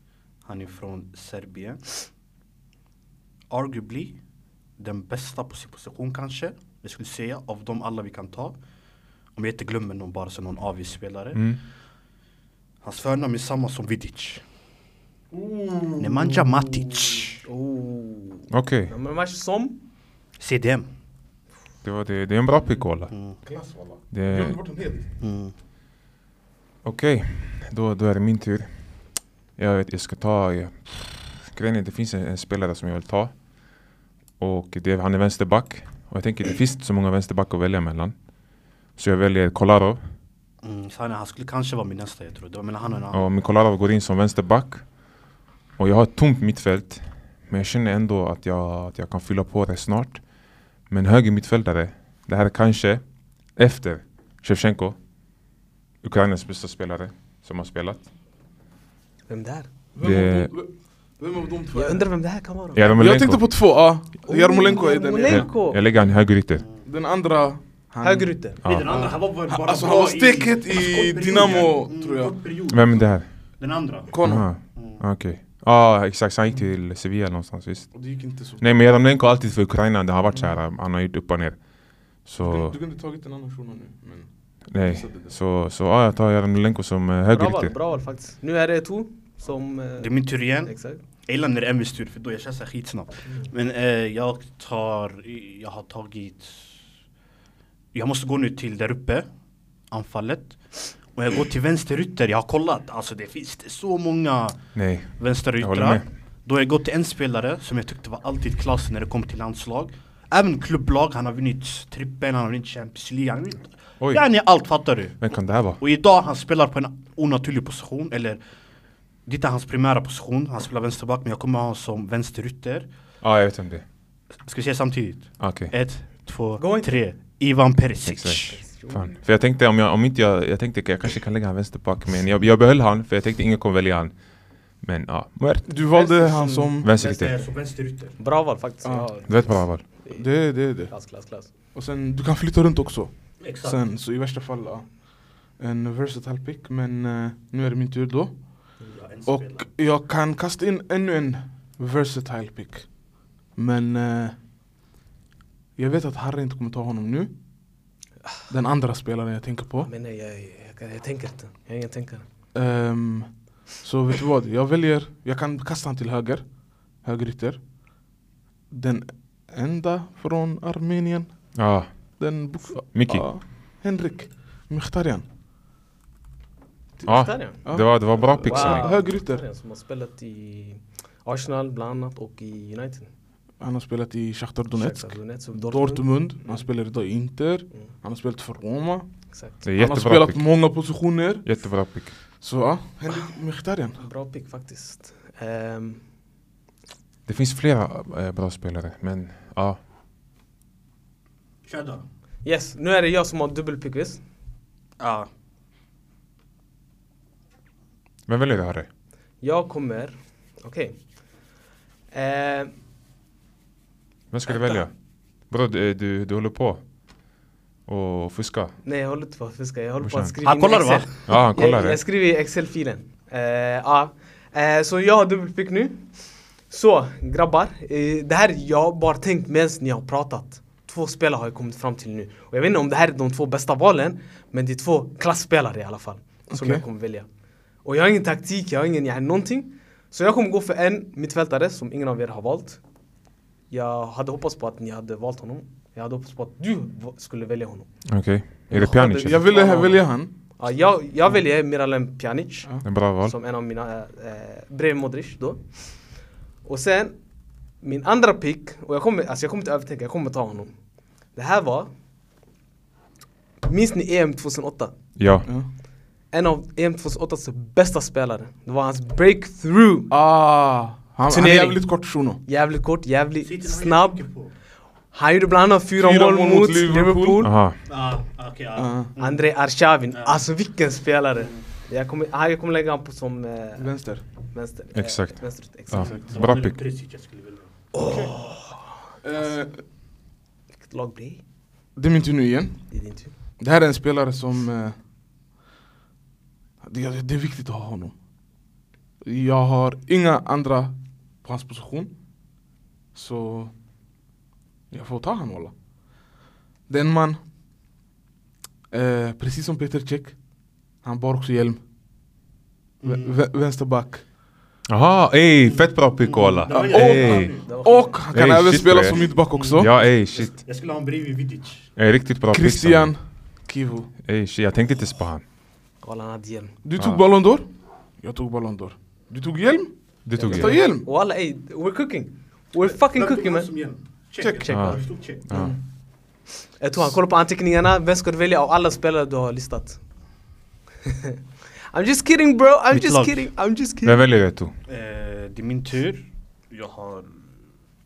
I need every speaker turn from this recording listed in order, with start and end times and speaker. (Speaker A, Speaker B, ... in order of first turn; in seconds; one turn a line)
Speaker A: 0.4-2.0
Speaker A: 3.5-4.2
Speaker A: 4.8-8.6
Speaker A: 9.3-11.4
Speaker B: 11.3-11.6
Speaker A: 12.8-14.4
Speaker C: 15.3-17.3
Speaker A: 16.0-17.4
Speaker D: 17.4-19.8
Speaker B: 18.5-18.9
Speaker A: 20.4-20.9
Speaker B: 21.8-23.1
Speaker A: 23.1-23.4
Speaker C: 23.4-25.1
Speaker B: 24.1-24.6
Speaker A: 25.2-25.5
Speaker B: 26.8-28.8
Speaker B: 29.6-33.3
Speaker B: 34.4-38.1
Speaker B: 39.0-40.0
Speaker A: 40.6-43.3
Speaker B: 43.1-44.9
Speaker B: 45.8-50.2
Speaker B: 50.9-53.0
Speaker B: 53.5-55.0
Speaker B: 56.0-58.0
Speaker D: 59.3-59.7
Speaker C: 59.9-62.1
Speaker B: 60.0-60.5
Speaker D: 61.7-62.9
Speaker B: 62.7-63.4
Speaker C: 62.9-65.5
Speaker D: 64.2-65.8
Speaker B: 65.2-66.6
Speaker C: 66.8-68.3
Speaker D: 68.0-68.6
Speaker B: 68.6-68.9
Speaker A: 68.6-75.0
Speaker C: 68.8-72.3
Speaker B: 72.7-73.3
Speaker C: 74.1-74.5
Speaker B: 74.2-81.7
Speaker C: 77.9-78.7
Speaker B: 82.2-82.7
Speaker C: 82.4-85.3
Speaker B: 84.7-87.7
Speaker D: 87.3-91.0
Speaker A: 90.0-96.7
Speaker A: 97.9-99.3
Speaker A: 99.9-104.6
Speaker B: 104.7-106.0
Speaker A: 105.2-118.4
Speaker B: 115.2-115.8
Speaker A: 119.2-122.9
Speaker B: 123.2-123.8
Speaker A: 124.5-128.6
Speaker B: 125.4-125.7
Speaker D: 126.6-127.0
Speaker B: 128.1-134.2
Speaker D: 128.5-129.1
Speaker B: 134.8-135.7
Speaker C: 135.7-136.9
Speaker D: 135.9-136.7
Speaker B: 136.8-137.4
Speaker A: 136.9-138.1
Speaker D: 138.2-141.5
Speaker C: 138.8-139.1
Speaker B: 139.3-139.8
Speaker C: 140.1-141.0
Speaker C: 141.7-148.7
Speaker A: 143.4-143.8
Speaker A: 148.8-149.7
Speaker C: 149.3-154.3
Speaker C: 155.8-157.3
Speaker C: 158.5-159.9
Speaker D: 159.8-162.2
Speaker C: 162.5-167.6
Speaker C: 168.7-171.6
Speaker B: 171.5-172.2
Speaker C: 172.2-175.2
Speaker B: 172.9-173.3
Speaker D: 177.0-183.1
Speaker B: 177.0-178.9
Speaker C: 177.6-179.4
Speaker C: 183.6-189.1
Speaker D: 184.7-186.6
Speaker D: 189.3-189.6
Speaker B: 189.6-190.4
Speaker C: 189.8-191.5
Speaker B: 191.4-192.1
Speaker C: 192.4-194.0
Speaker D: 194.0-196.0
Speaker B: 197.2-199.8
Speaker A: 201.7-202.0
Speaker D: 202.4-204.2
Speaker A: 205.0-205.3
Speaker B: 208.3-208.9
Speaker D: 209.4-211.0
Speaker D: 212.1-212.7
Speaker B: 214.3-214.9
Speaker B: 215.4-216.8
Speaker B: 217.8-218.7
Speaker D: 218.8-226.1
Speaker B: 220.0-220.3
Speaker A: 220.4-221.2
Speaker B: 221.3-222.0
Speaker D: 226.7-237.3
Speaker C: 236.5-236.8
Speaker D: 237.8-242.8
Speaker D: 243.7-247.9
Speaker B: 248.1-249.4
Speaker C: 248.7-250.3
Speaker D: 248.7-250.0
Speaker D: 250.6-255.9
Speaker B: 252.8-253.3
Speaker D: 256.6-257.2
Speaker D: 257.8-260.7
Speaker D: 261.3-261.9
Speaker D: 263.6-264.9
Speaker B: 265.2-265.5
Speaker D: 266.3-270.1
Speaker C: 270.1-272.4
Speaker D: 271.3-274.2
Speaker A: 273.4-274.5
Speaker D: 275.1-277.5
Speaker C: 276.0-277.4
Speaker B: 277.4-277.8
Speaker A: 277.9-279.4
Speaker C: 278.8-279.1
Speaker D: 279.2-283.9
Speaker A: 280.1-280.4
Speaker C: 283.8-284.2
Speaker D: 284.5-286.3
Speaker B: 284.9-286.8
Speaker A: 285.9-288.3
Speaker D: 287.9-289.5
Speaker C: 289.2-289.8
Speaker D: 290.8-291.4
Speaker C: 291.9-292.8
Speaker D: 292.9-293.3
Speaker C: 293.6-294.9
Speaker C: 296.8-298.1
Speaker C: 299.2-302.1
Speaker C: 303.1-303.7
Speaker C: 304.9-305.7
Speaker C: 306.9-307.4
Speaker C: 308.9-310.4
Speaker C: 311.0-311.8
Speaker A: 313.0-313.4
Speaker C: 313.0-314.2
Speaker B: 314.9-317.5
Speaker A: 315.6-317.7
Speaker C: 316.9-319.9
Speaker D: 317.6-318.2
Speaker B: 318.3-320.6
Speaker A: 319.5-321.9
Speaker B: 322.0-323.1
Speaker C: 322.5-324.1
Speaker B: 324.2-325.4
Speaker D: 326.0-326.8
Speaker C: 326.8-327.6
Speaker C: 328.2-331.1
Speaker B: 330.2-330.8
Speaker D: 330.3-333.7
Speaker A: 333.0-335.4
Speaker D: 334.4-335.0
Speaker B: 334.7-335.7
Speaker C: 335.5-335.8
Speaker D: 336.8-340.0
Speaker D: 341.1-341.4
Speaker D: 341.9-344.2
Speaker A: 342.9-343.5
Speaker B: 344.0-344.7
Speaker A: 344.9-347.4